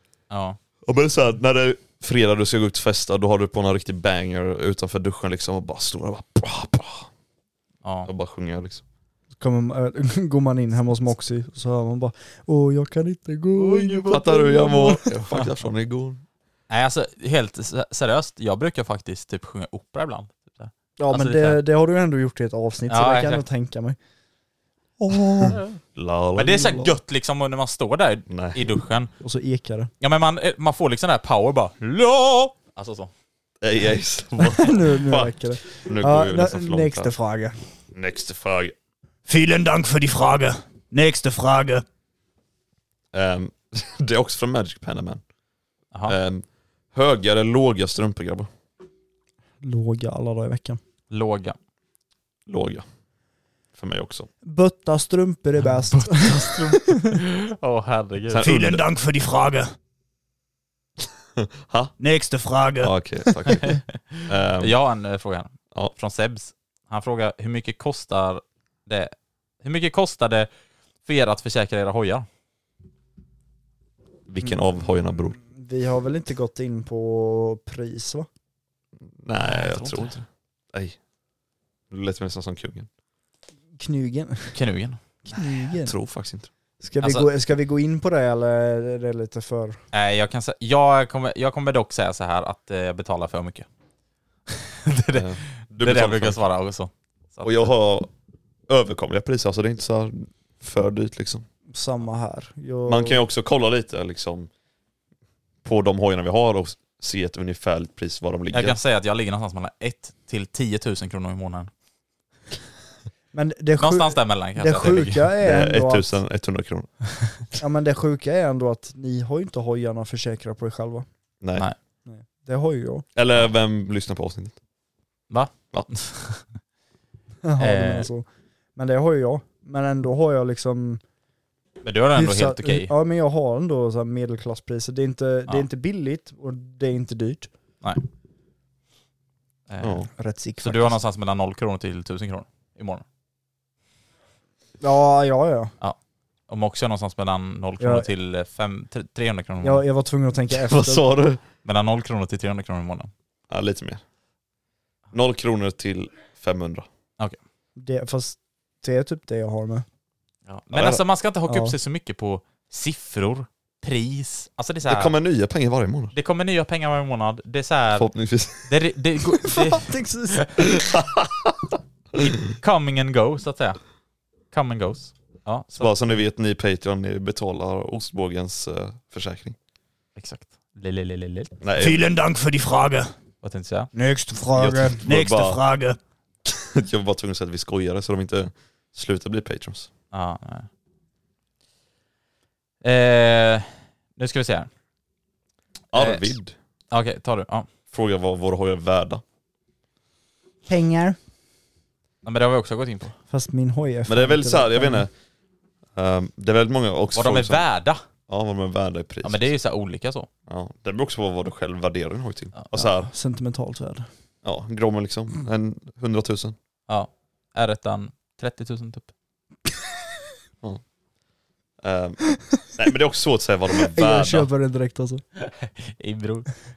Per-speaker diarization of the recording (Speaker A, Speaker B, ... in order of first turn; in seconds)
Speaker A: 0.3-0.6, 7.8-8.1, 13.6-15.5, 16.7-21.6, 22.9-23.4, 25.4-25.8, 26.4-29.1, 30.0-33.1, 51.1-51.6, 55.7-58.5, 63.6-70.5, 71.0-72.3, 79.4-80.2, 84.5-85.0, 87.0-87.3, 89.9-93.7, 94.5-97.7, 108.5-111.7, 113.8-115.3, 125.3-126.5, 127.6-128.1, 131.8-132.9, 139.7-143.0, 146.5-149.8, 151.7-153.1, 160.5-165.1, 166.1-168.1, 168.6-170.5, 172.2-173.8, 174.5-176.2, 180.2-181.5, 183.4-183.9, 190.1-190.7, 192.8-194.7, 195.9-196.3, 196.9-197.7, 202.2-203.2, 207.1-208.0, 209.2-210.3, 212.5-213.0, 216.9-219.1, 225.4-226.5
Speaker B: 0.9-7.1, 8.1-8.8, 14.1-16.2, 25.9-27.0, 28.3-28.6, 33.6-37.1, 37.9-38.8, 43.1-45.2, 46.0-48.5, 52.5-52.9, 53.8-54.3, 58.3-58.8, 61.4-61.9, 62.8-64.8, 74.3-75.4, 79.2-81.0, 81.9-82.9, 85.8-86.5, 95.1-96.4, 97.4-98.1, 98.7-101.5, 102.9-104.5, 105.6-108.8, 115.4-117.3, 121.4-121.7, 123.2-124.6, 139.8-140.1, 150.7-151.4, 153.5-154.0, 155.1-156.9, 160.7-161.0, 164.8-166.2, 167.9-168.7, 170.8-171.5, 175.8-179.6, 181.6-182.1, 184.6-185.6, 186.5-189.9, 195.9-196.5, 197.9-199.2, 204.1-205.1, 205.9-207.7, 208.3-209.5, 210.5-213.1, 214.4-216.6, 221.8-224.5
Speaker C: 9.4-15.0, 21.0-24.0, 25.0-25.6, 29.2-29.9, 34.5-37.6, 49.6-50.8, 54.5-57.0, 75.4-78.3, 83.8-84.5, 85.3-85.9, 86.8-89.8, 101.7-103.2, 113.3-116.2, 117.6-121.1, 122.1-123.1, 127.4-128.2, 128.8-131.0, 132.1-137.5, 140.2-141.0, 144.8-145.7, 147.8-148.1, 149.6-151.1, 157.8-159.9, 161.5-161.8, 169.5-170.7, 200.7-201.2, 203.3-205.1, 213.1-214.1, 223.9-225.2
Speaker D: 39.3-41.8, 58.4-59.7, 62.0-62.9, 181.8-183.1, 183.9-186.0